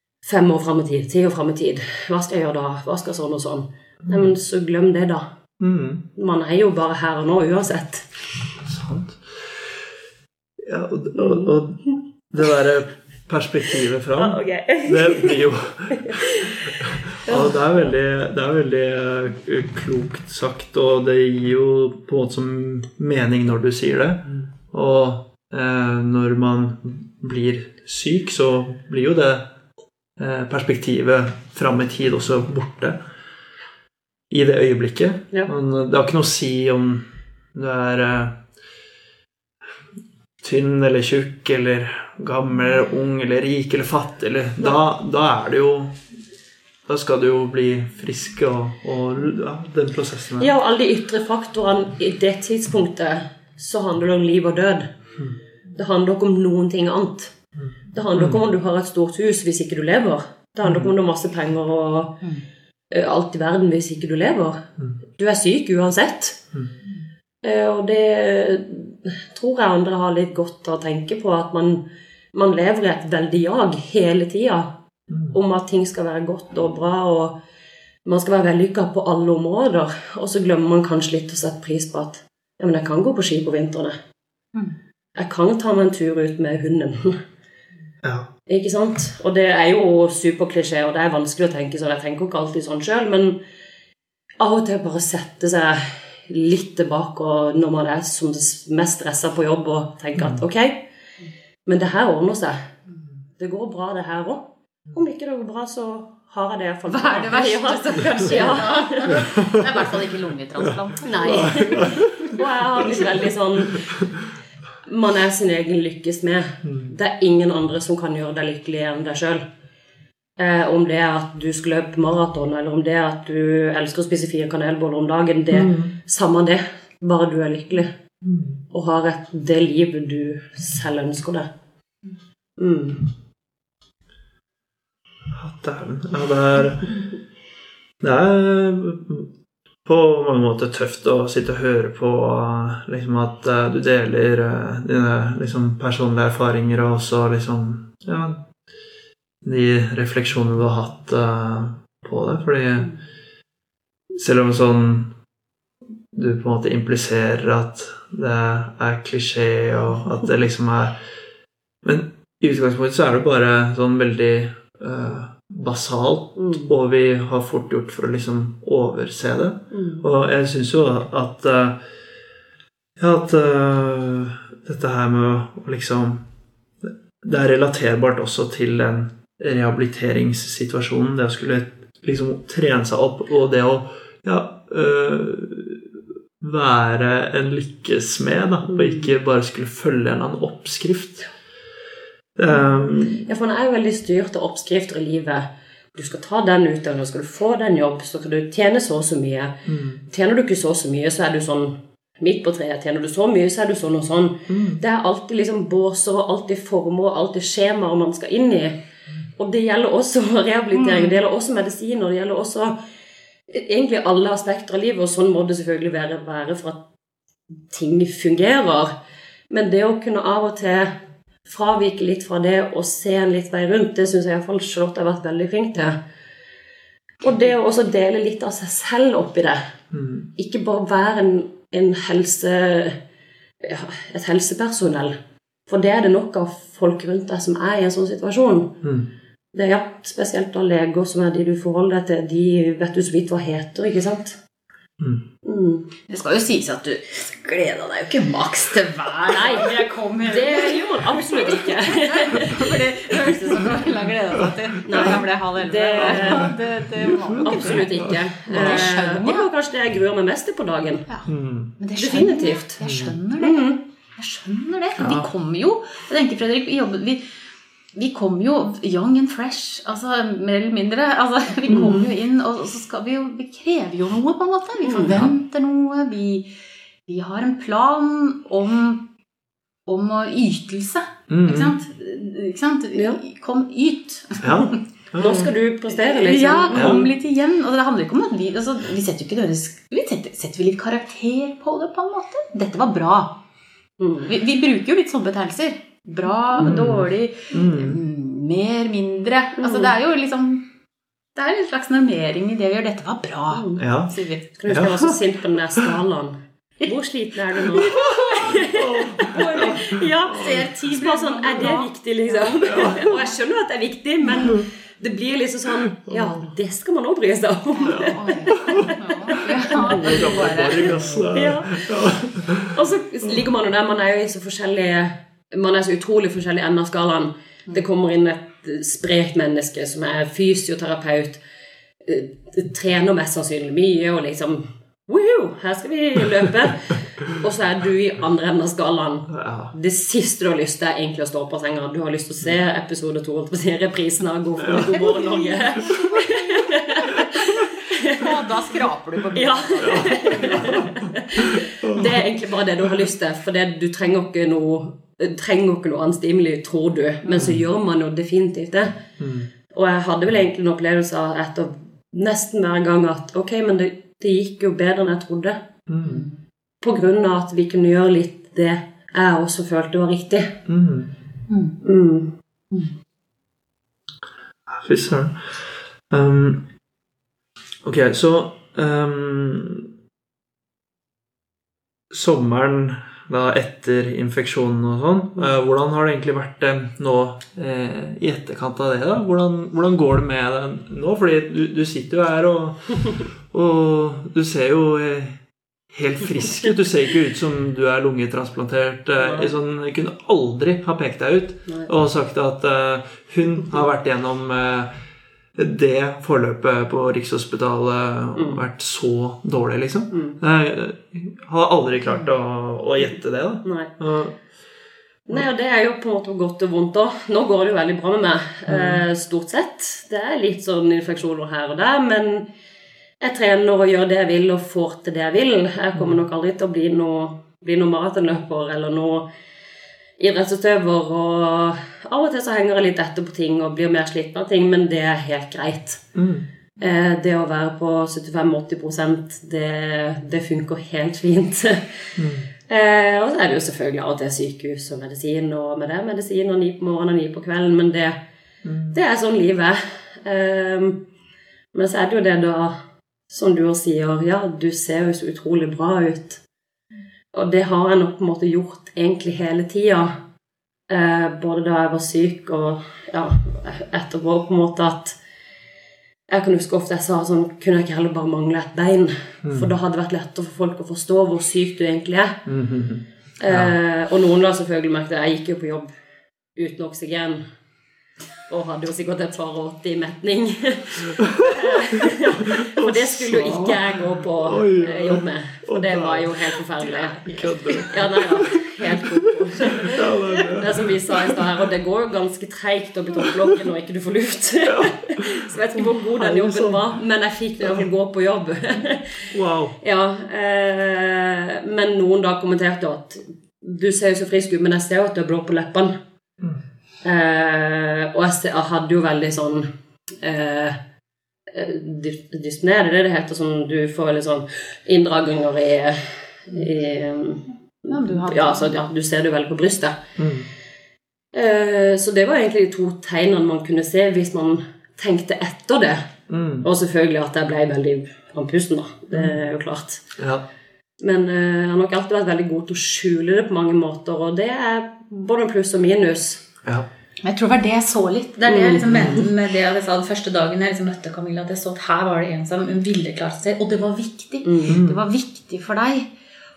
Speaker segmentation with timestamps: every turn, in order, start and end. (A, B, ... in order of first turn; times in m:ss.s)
0:00.2-0:05.3 A
0:04.0-0:04.3 B
0:05.6-0:06.0 B
0:06.2-0:08.2 A
0:08.6-0:09.6 B
0:10.6-0:29.5 B
0:11.2-0:11.5 A
0:14.2-0:15.4 A
0:16.0-0:16.6 A
0:17.2-0:17.9 A
0:30.2-0:33.0 B
0:34.3-0:38.4 B
0:40.4-0:46.0 B
0:46.9-0:50.5 B
0:50.4-0:54.9 A
0:55.8-0:57.4 A
0:57.6-0:58.4 B
0:57.9-1:02.2 A
1:00.6-1:00.9 B
1:02.9-1:04.6 A
1:05.2-1:06.4 A
1:07.4-1:14.8 A
1:15.1-1:15.4 B
1:15.3-1:17.4 A
1:18.0-1:24.0 A
1:25.2-1:27.2 A
1:28.0-1:28.3 B
1:28.5-1:33.4 A
1:34.4-1:40.9 A
1:40.2-1:40.4 B
1:41.7-1:42.7 A
1:43.4-1:49.3 A
1:46.9-1:52.1 C
1:51.0-1:54.0 A
1:51.4-1:52.3 B
1:53.8-1:54.0 B
1:54.8-1:59.4 A
1:56.6-1:56.9 B
2:00.4-2:07.9 A
2:05.5-2:06.0 B
2:08.2-2:08.6 B
2:08.7-2:11.5 A
2:12.6-2:13.1 A
2:15.3-2:17.0 B
2:18.0-2:19.3 B
2:19.8-2:28.4 B
2:29.4-2:32.9 B
2:34.1-2:35.1 B
2:36.1-2:41.0 B
2:41.8-2:51.8 B
2:46.4-2:46.7 A
2:49.7-2:50.1 A
2:53.0-2:56.2 B
2:57.2-3:11.3 B
3:08.7-3:09.1 A
3:12.4-3:13.2 B
3:13.2-3:19.6 A
3:19.7-3:20.0 B
3:20.1-3:28.8 A
3:24.5-3:24.8 B
3:29.4-3:32.8 A
3:30.8-3:31.1 C
3:33.5-3:36.8 A
3:37.7-3:38.9 A
3:39.5-3:46.0 A
3:47.2-3:49.7 A
3:49.9-3:50.3 B
3:50.4-3:53.0 A
3:53.6-3:55.2 A
3:55.7-3:58.8 A
3:58.8-3:59.1 B
3:59.5-4:04.4 A
4:05.4-4:05.9 A
4:06.1-4:17.9 C
4:09.3-4:13.8 A
4:14.8-4:16.6 A
4:16.2-4:18.9 B
4:17.4-4:21.1 A
4:18.5-4:19.5 C
4:21.1-4:27.2 C
4:21.3-4:21.7 B
4:22.0-4:22.8 A
4:22.8-4:23.1 B
4:23.4-4:23.8 A
4:25.0-4:25.3 B
4:27.9-4:36.5 C
4:31.7-4:32.1 A
4:34.8-4:35.2 A
4:37.1-4:39.1 C
4:39.9-4:44.8 C
4:41.3-4:41.8 B
4:44.4-4:45.5 B
4:45.2-4:47.1 A
4:46.0-4:53.4 C
4:46.7-4:47.1 B
4:54.0-4:54.4 A
4:54.3-5:00.7 C
4:56.6-4:58.0 B
4:59.6-4:59.9 A
5:01.4-5:04.5 C
5:03.5-5:03.8 A
5:03.8-5:04.1 B
5:04.6-5:20.3 A
5:04.7-5:05.2 B
5:07.7-5:08.6 C
5:08.6-5:10.6 B
5:09.2-5:13.3 C
5:12.7-5:13.1 B
5:16.1-5:16.4 B
5:17.7-5:21.2 C
5:17.9-5:18.9 B
5:19.8-5:22.7 B
5:21.3-5:22.1 A
5:22.6-5:31.4 A
5:32.0-5:48.2 A
5:39.3-5:39.7 B
5:44.6-5:44.9 B
5:44.8-5:46.0 C
5:48.1-5:50.9 C
5:49.4-5:59.0 A
5:49.8-5:52.1 B
5:59.2-5:59.5 B
5:59.7-6:06.1 A
6:05.9-6:06.2 B
6:06.0-6:06.3 C
6:06.8-6:10.6 A
6:10.7-6:11.1 B
6:11.5-6:11.8 C
6:11.8-6:12.3 A
6:14.7-6:16.6 B
6:17.8-6:19.9 B
6:22.1-6:44.9 B
6:39.2-6:39.5 A
6:41.7-6:41.9 A
6:45.6-6:54.4 B
6:48.4-6:48.6 A
6:50.1-6:50.4 A
6:53.6-6:53.9 A
6:55.3-7:02.5 A
6:58.7-6:59.0 B
7:03.2-7:09.3 A
7:10.2-7:16.0 A
7:16.2-7:16.5 B
7:16.8-7:22.1 A
7:22.2-7:22.5 B
7:22.7-7:28.2 A
7:28.6-7:29.0 B
7:28.9-7:31.0 A
7:31.7-7:32.8 A
7:33.3-7:36.4 A
7:37.3-7:40.2 A
7:40.9-7:45.2 A
7:46.3-7:52.4 A
7:49.4-7:49.7 B
7:52.5-7:53.7 B
7:53.4-7:55.9 A
7:56.6-7:57.4 A
7:58.5-8:19.3 A
8:01.2-8:01.5 B
8:02.4-8:06.5 B
8:07.1-8:07.9 C
8:07.3-8:11.6 B
8:13.2-8:13.5 B
8:14.6-8:16.8 B
8:19.3-8:19.8 B
8:19.8-8:26.0 A
8:27.0-8:29.7 A
8:30.2-8:30.8 A
8:31.5-8:40.0 A
8:37.9-8:38.7 C
8:40.2-8:40.5 B
8:41.3-8:46.1 A
8:46.3-8:46.7 B
8:46.6-8:50.0 A
8:50.2-8:50.4 B
8:51.0-8:56.5 A
8:57.2-9:06.1 C
8:58.5-8:59.3 A
8:58.9-8:59.2 B
9:04.4-9:04.8 A
9:04.7-9:05.0 B